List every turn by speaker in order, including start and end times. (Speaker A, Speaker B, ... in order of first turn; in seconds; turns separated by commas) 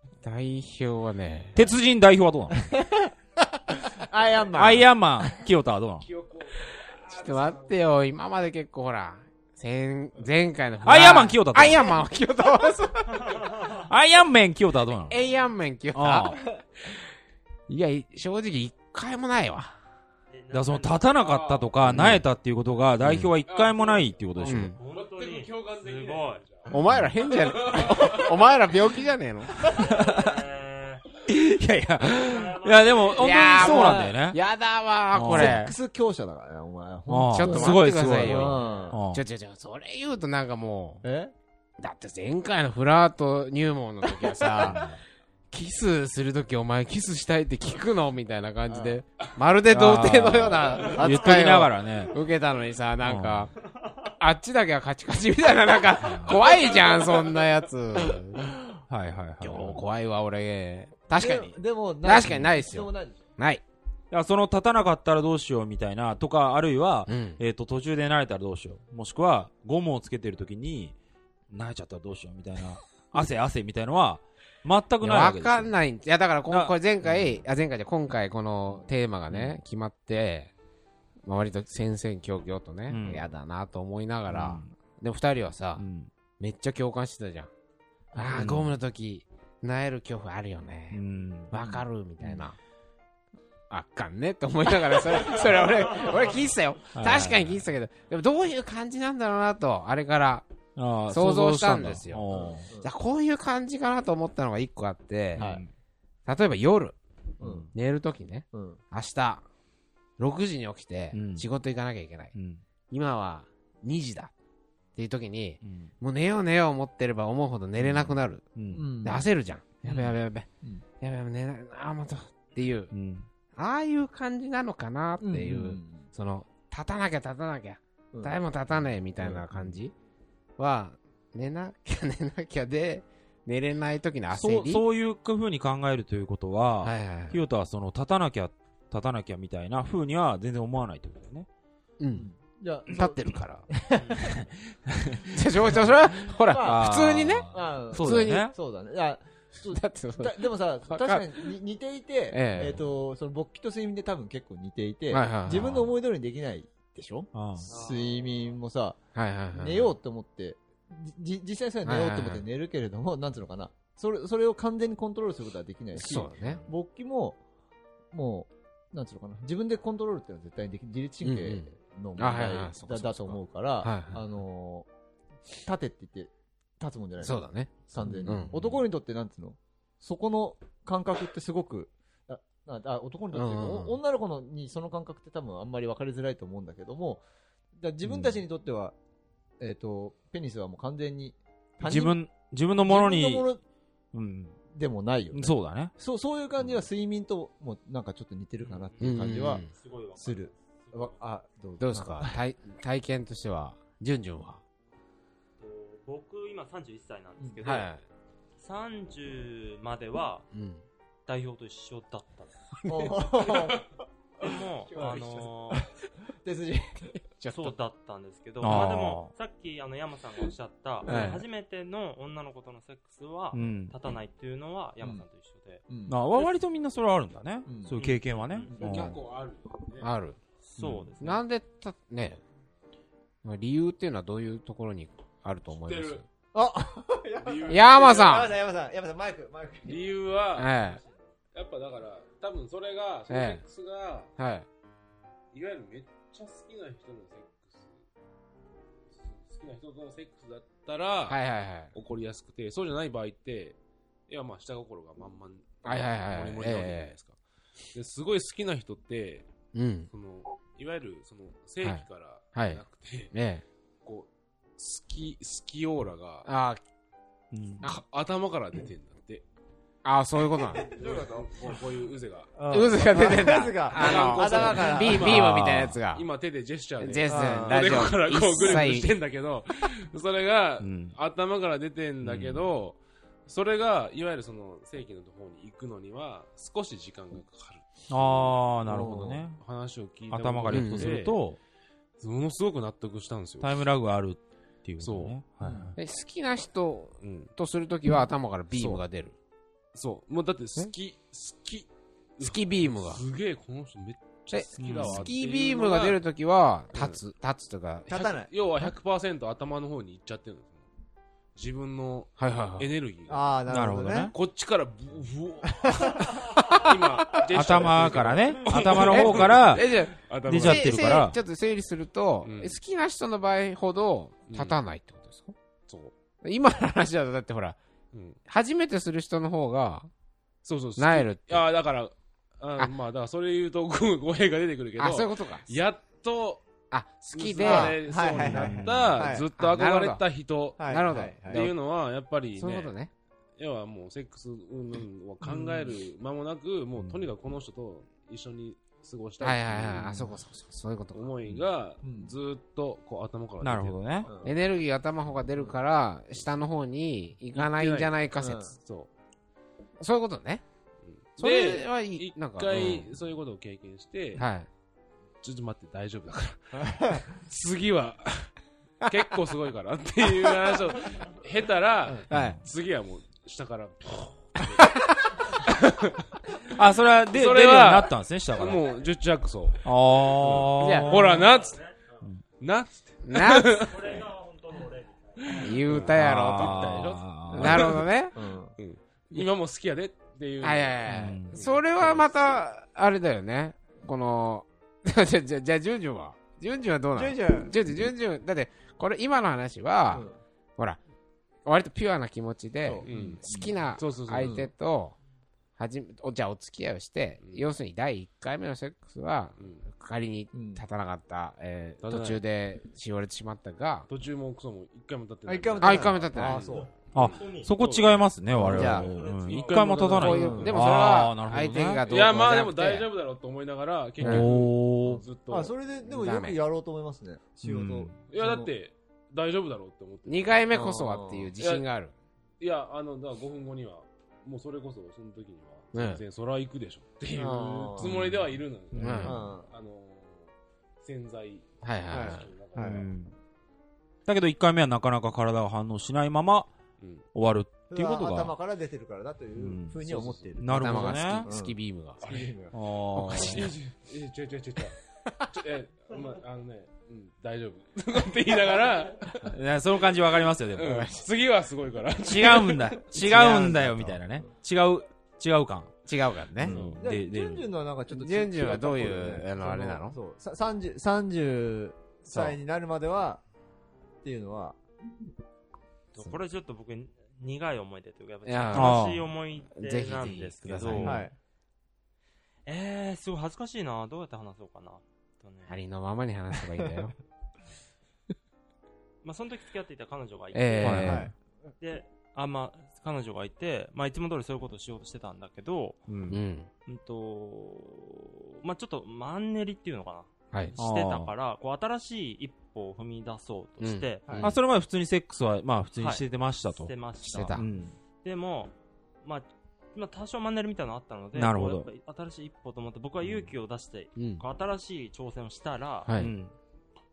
Speaker A: 0.2-1.6, Speaker B: 1.6-2.6, Speaker C: 2.5-5.3, Speaker B: 4.5-6.1, Speaker D: 6.0-7.8, Speaker A: 7.0-13.4, Speaker B: 10.8-11.9, Speaker E: 13.2-13.8, Speaker B: 13.8-15.2, Speaker A: 15.1-16.5, Speaker B: 15.9-16.4, Speaker A: 17.7-19.7, Speaker E: 20.3-21.1, Speaker B: 20.5-24.7, Speaker D: 21.2-21.7, Speaker A: 21.8-22.2, Speaker A: 23.0-23.3, Speaker D: 23.5-28.5, Speaker A: 24.4-24.8, Speaker E: 24.7-26.4, Speaker A: 26.7-29.5, Speaker B: 29.6-30.2, Speaker E: 29.6-31.1, Speaker B: 31.3-34.4, Speaker E: 32.1-33.7, Speaker A: 33.2-35.7, Speaker C: 33.7-34.1, Speaker B: 35.1-35.7, Speaker C: 35.3-39.0, Speaker B: 37.1-39.2, Speaker A: 37.3-41.0, Speaker C: 41.0-41.3, Speaker A: 41.8-44.9, Speaker B: 44.6-45.0, Speaker A: 45.5-53.5, Speaker C: 48.7-49.0, Speaker B: 49.7-52.1, Speaker B: 53.0-53.5, Speaker A: 54.2-58.5, Speaker B: 56.0-56.5, Speaker D: 56.3-57.3, Speaker B: 58.9-59.8, Speaker A: 59.4-63.6, Speaker C: 61.1-63.2, Speaker B: 64.1-70.9, Speaker A: 67.1-67.4, Speaker B: 71.5-75.7, Speaker A: 75.0-80.5, Speaker B: 76.5-77.4, Speaker B: 79.3-79.6, Speaker A: 81.2-85.8, Speaker B: 82.9-83.3, Speaker B: 84.3-84.7, Speaker B: 85.8-86.1, Speaker A: 86.4-87.5, Speaker A: 88.1-92.6, Speaker B: 88.3-88.7, Speaker B: 90.9-92.5, Speaker A: 93.7-100.5, Speaker B: 97.0-97.6, Speaker B: 100.8-102.7, Speaker A: 101.1-102.2, Speaker C: 102.3-102.9, Speaker A: 102.8-105.5, Speaker B: 105.3-105.7, Speaker C: 105.4-105.6, Speaker A: 106.3-107.0, Speaker C: 107.4-107.7, Speaker B: 107.4-107.7, Speaker A: 107.7-109.4, Speaker C: 108.5-108.8, Speaker A: 110.2-112.3, Speaker B: 111.1-111.5, Speaker B: 112.3-112.6, Speaker A: 112.9-114.3, Speaker A: 115.0-118.4, Speaker B: 115.7-115.9, Speaker B: 117.8-118.9, Speaker C: 118.7-119.3, Speaker A: 119.0-120.5, Speaker C: 119.9-120.1, Speaker A: 121.0-122.9, Speaker B: 122.9-123.3, Speaker A: 123.6-129.9, Speaker C: 125.2-126.1, Speaker A: 130.6-134.8, Speaker B: 134.3-141.5, Speaker A: 136.8-137.4, Speaker A: 142.0-142.3, Speaker C: 142.1-144.3, Speaker A: 142.9-143.7, Speaker B: 144.2-145.9, Speaker A: 145.3-148.5, Speaker C: 146.3-159.0, Speaker B: 146.6-148.5, Speaker A: 149.7-151.5, Speaker A: 152.3-152.8, Speaker A: 155.1-155.9, Speaker B: 157.3-157.7, Speaker E: 157.7-158.1, Speaker A: 159.2-159.9, Speaker C: 159.5-167.4, Speaker A: 161.8-162.4, Speaker A: 165.9-166.6, Speaker C: 168.1-174.9, Speaker A: 171.2-174.2, Speaker C: 175.7-177.4, Speaker A: 177.2-178.6, Speaker C: 177.9-187.2, Speaker B: 178.4-178.8, Speaker A: 183.3-184.0, Speaker C: 187.8-188.9, Speaker B: 188.1-188.4, Speaker C: 189.6-192.2, Speaker B: 191.8-193.5, Speaker C: 192.8-193.6, Speaker B: 194.1-194.6, Speaker C: 194.7-199.6, Speaker B: 195.3-195.9, Speaker E: 198.6-201.2, Speaker A: 199.0-199.7, Speaker C: 200.2-202.4, Speaker A: 201.8-204.6, Speaker E: 205.6-207.9, Speaker A: 207.6-208.0, Speaker E: 208.6-210.5, Speaker A: 210.5-210.8, Speaker E: 211.3-212.8, Speaker C: 212.9-213.9, Speaker D: 213.5-213.8, Speaker E: 214.4-215.9, Speaker D: 215.0-215.5, Speaker C: 215.0-215.8, Speaker C: 216.4-217.2, Speaker A: 217.4-217.8, Speaker E: 217.5-225.8, Speaker B: 218.6-219.3, Speaker A: 221.1-221.4, Speaker B: 223.5-223.9, Speaker C: 225.0-225.3, Speaker C: 225.9-226.2, Speaker B: 226.1-229.1, Speaker C: 227.7-227.9, Speaker E: 228.0-228.8, Speaker D: 228.7-230.1, Speaker C: 228.8-229.2, Speaker A: 230.0-230.4, Speaker E: 230.7-231.4, Speaker B: 230.8-231.1, Speaker A: 231.2-232.4, Speaker A: 233.4-236.3, Speaker D: 235.7-236.2, Speaker C: 236.5-240.1, Speaker D: 237.4-238.5, Speaker A: 237.7-238.5, Speaker D: 239.9-240.8, Speaker A: 240.6-241.0, Speaker D: 241.5-244.3, Speaker A: 243.3-243.6, Speaker A: 244.4-244.7, Speaker D: 245.5-248.0, Speaker D: 249.1-251.4, Speaker A: 251.3-251.9, Speaker D: 251.9-253.8, Speaker D: 254.3-257.4, Speaker A: 255.8-257.1, Speaker D: 257.9-259.5, Speaker A: 259.7-260.1, Speaker D: 260.1-263.3, Speaker A: 261.8-263.6, Speaker D: 264.0-266.5, Speaker A: 266.4-266.8, Speaker B: 267.5-267.9, Speaker D: 267.8-269.4, Speaker A: 270.1-270.9, Speaker D: 270.7-288.6, Speaker C: 270.8-271.7, Speaker C: 272.6-275.5, Speaker A: 272.7-276.2, Speaker B: 275.4-275.9, Speaker A: 277.0-279.1, Speaker C: 277.3-278.8, Speaker B: 280.8-281.2, Speaker B: 282.2-282.7, Speaker B: 288.1-289.6, Speaker C: 288.9-289.4, Speaker D: 289.6-291.4, Speaker B: 290.3-291.6, Speaker A: 290.7-291.2, Speaker D: 292.2-293.8, Speaker B: 293.6-296.0, Speaker D: 295.0-295.4, Speaker C: 295.6-295.9, Speaker A: 296.0-299.3, Speaker D: 297.2-297.5, Speaker D: 298.7-299.0, Speaker D: 299.9-306.2, Speaker A: 302.4-303.2, Speaker A: 304.5-308.4, Speaker B: 304.8-305.3, Speaker C: 308.1-308.5, Speaker D: 308.5-310.8, Speaker D: 311.6-313.6, Speaker A: 312.4-312.9, Speaker C: 313.3-314.3, Speaker B: 313.7-314.4, Speaker D: 314.3-321.2, Speaker C: 315.9-316.2, Speaker B: 317.5-319.9, Speaker A: 319.1-325.6, Speaker B: 320.4-321.4, Speaker D: 322.4-322.8, Speaker D: 324.5-324.8, Speaker D: 325.9-326.1, Speaker A: 326.4-327.8, Speaker D: 328.1-328.4, Speaker A: 328.5-330.1, Speaker D: 330.6-336.7, Speaker A: 331.0-331.6, Speaker A: 335.0-335.7, Speaker A: 336.9-338.1, Speaker D: 337.3-342.9, Speaker C: 337.6-339.5, Speaker B: 338.4-339.2, Speaker A: 339.6-340.2, Speaker C: 340.8-341.7, Speaker A: 340.8-341.8, Speaker A: 342.6-343.1, Speaker D: 343.6-350.4, Speaker C: 345.4-345.9, Speaker B: 347.0-347.2, Speaker A: 349.4-351.3, Speaker D: 351.1-354.3, Speaker C: 352.0-352.3, Speaker B: 353.6-354.3, Speaker C: 354.2-354.5, Speaker A: 354.4-358.7, Speaker D: 357.6-358.2, Speaker C: 358.4-358.7, Speaker D: 358.8-359.1, Speaker A: 360.0-360.6, Speaker D: 361.0-364.5, Speaker A: 361.4-363.0, Speaker B: 362.7-363.1, Speaker A: 364.4-364.7, Speaker D: 365.4-376.7, Speaker C: 366.8-367.2, Speaker A: 372.2-372.6, Speaker B: 372.3-372.6, Speaker B: 376.7-378.8, Speaker D: 377.3-381.8, Speaker B: 379.8-381.5, Speaker A: 380.8-381.1, Speaker E: 381.4-382.0, Speaker D: 382.6-384.2, Speaker A: 383.2-383.7, Speaker E: 383.8-386.0, Speaker D: 385.5-388.1, Speaker A: 385.6-388.4, Speaker B: 385.9-388.0, Speaker C: 388.4-388.7, Speaker D: 388.8-392.3, Speaker A: 390.6-401.0, Speaker B: 391.1-391.6, Speaker C: 397.2-397.8, Speaker C: 400.1-400.4, Speaker A: 401.7-405.1, Speaker C: 402.8-403.8, Speaker D: 403.1-403.4, Speaker D: 404.0-404.7, Speaker C: 404.4-404.7, Speaker A: 405.8-414.1, Speaker D: 407.4-407.7, Speaker D: 409.6-409.9, Speaker C: 410.5-410.8, Speaker D: 412.0-412.4, Speaker D: 414.1-417.3, Speaker C: 415.5-416.9, Speaker A: 415.8-416.6, Speaker E: 416.8-420.2, Speaker B: 417.1-422.3, Speaker C: 418.6-419.1, Speaker A: 418.6-419.0, Speaker D: 418.6-420.8, Speaker A: 420.1-423.1, Speaker C: 420.3-420.8, Speaker D: 422.1-425.7, Speaker B: 424.2-425.2, Speaker A: 424.2-424.5, Speaker C: 425.1-428.7, Speaker A: 426.1-426.6, Speaker B: 427.6-428.2, Speaker D: 428.3-430.7, Speaker A: 430.3-432.1, Speaker C: 430.7-431.5, Speaker D: 431.6-431.9, Speaker D: 432.6-443.1, Speaker A: 435.9-436.2, Speaker C: 437.4-438.3, Speaker B: 438.0-439.4, Speaker A: 439.0-439.4, Speaker C: 439.2-439.7, Speaker A: 441.8-442.5, Speaker C: 442.1-443.1, Speaker B: 442.8-443.3, Speaker B: 444.3-446.7, Speaker B: 447.3-448.5, Speaker C: 447.9-452.7, Speaker B: 449.6-450.0, Speaker D: 450.1-450.5, Speaker B: 450.6-451.5, Speaker A: 450.7-452.3, Speaker B: 452.7-453.7, Speaker A: 453.1-453.7, Speaker D: 453.3-455.0, Speaker D: 455.5-459.5, Speaker B: 459.5-461.1, Speaker D: 460.8-463.1, Speaker A: 460.9-461.2, Speaker B: 462.2-465.9, Speaker A: 463.1-464.2, Speaker A: 466.1-466.9, Speaker B: 466.6-467.7, Speaker C: 466.6-473.4, Speaker A: 468.1-470.2, Speaker C: 474.2-474.8, Speaker E: 476.1-481.2, Speaker A: 478.4-479.1, Speaker B: 478.7-479.3, Speaker A: 479.7-481.2, Speaker B: 480.9-481.2, Speaker C: 481.0-481.3, Speaker E: 482.7-485.8, Speaker A: 485.7-487.1, Speaker E: 489.2-491.2, Speaker A: 490.5-491.3, Speaker B: 490.8-491.2, Speaker C: 491.1-491.3, Speaker E: 491.8-496.0, Speaker B: 496.1-496.4, Speaker A: 496.3-496.7, Speaker E: 496.9-504.5, Speaker B: 500.8-501.3, Speaker A: 503.8-504.5, Speaker C: 504.3-504.5, Speaker B: 504.4-506.9, Speaker E: 506.0-507.6, Speaker A: 507.2-507.6, Speaker B: 507.6-507.9, Speaker E: 508.2-516.2, Speaker B: 511.3-511.9, Speaker B: 513.2-513.5, Speaker A: 514.2-514.4, Speaker A: 516.1-516.3, Speaker B: 516.2-516.5